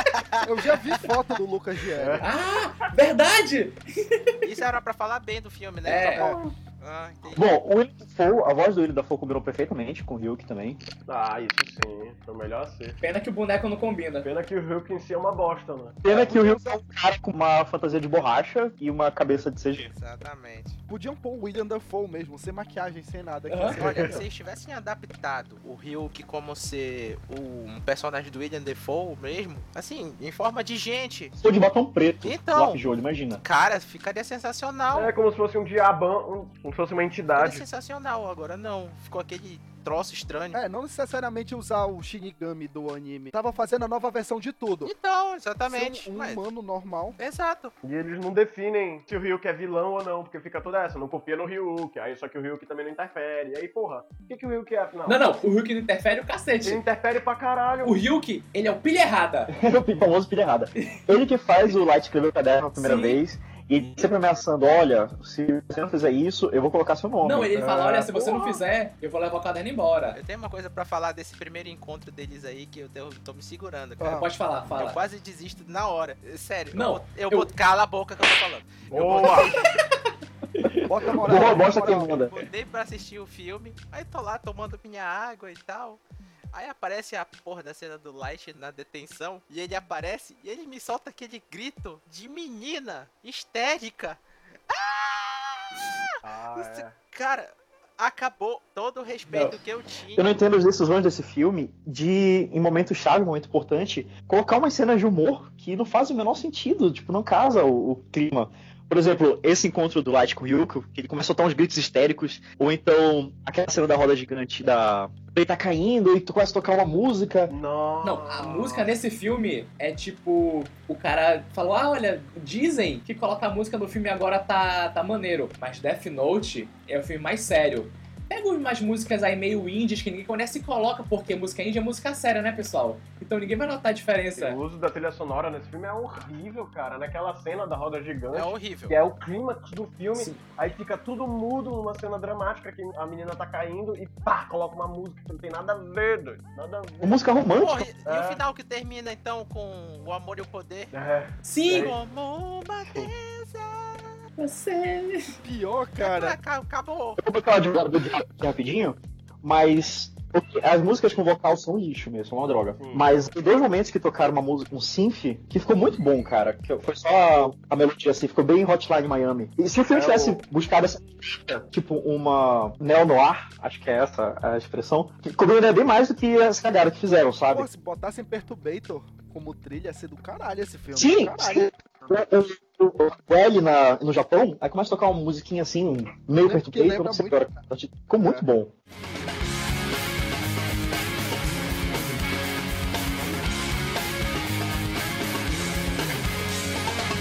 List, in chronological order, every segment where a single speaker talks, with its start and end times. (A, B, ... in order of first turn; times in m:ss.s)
0:00.4-0:02.2 A
0:02.0-0:02.2 B
0:02.2-0:04.4 C
0:04.4-0:06.3 D
0:05.8-0:06.2 C
0:05.9-0:06.5 B
0:06.8-0:07.5 D
0:07.3-0:10.8 E
0:11.1-0:13.0 B
0:13.0-0:14.3 C
0:14.2-0:16.3 B
0:16.0-0:19.9 E
0:19.7-0:20.8 D
0:20.9-0:24.2 A
0:23.5-0:23.8 C
0:23.7-0:31.4 D
0:31.4-0:33.4 E
0:32.2-0:32.8 D
0:33.4-0:35.1 D
0:34.9-0:37.6 B
0:37.3-0:40.6 D
0:40.5-0:44.9 A
0:44.8-0:46.4 D
0:45.7-0:47.2 A
0:47.2-0:47.7 D
0:47.8-0:55.2 B
0:55.0-0:56.8 C
0:56.6-0:58.0 B
0:57.8-0:59.5 C
0:59.5-1:08.0 E
1:02.8-1:03.2 C
1:07.2-1:10.2 C
1:08.0-1:08.6 B
1:10.1-1:19.5 D
1:14.0-1:14.3 A
1:14.1-1:15.0 C
1:16.7-1:17.5 C
1:18.9-1:19.5 B
1:19.0-1:19.6 C
1:20.5-1:20.9 C
1:20.9-1:22.4 A
1:21.2-1:22.3 E
1:22.4-1:26.0 D
1:26.5-1:40.3 D
1:36.2-1:36.9 B
1:40.1-1:57.5 E
1:57.5-1:58.9 B
1:58.0-2:14.6 C
2:14.4-2:27.2 B
2:18.3-2:19.0 D
2:20.1-2:20.4 C
2:27.0-2:27.9 E
2:27.5-2:30.9 D
2:28.0-2:28.4 B
2:30.9-2:31.9 B
2:31.4-2:31.9 C
2:31.7-2:34.2 D
2:34.4-2:35.3 C
2:35.4-2:36.4 A
2:36.0-2:37.2 D
2:37.2-2:57.7 E
2:42.8-2:43.1 B
2:49.9-2:50.4 B
2:57.5-3:01.7 A
3:00.9-3:08.7 E
3:06.4-3:07.6 A
3:08.1-3:08.4 A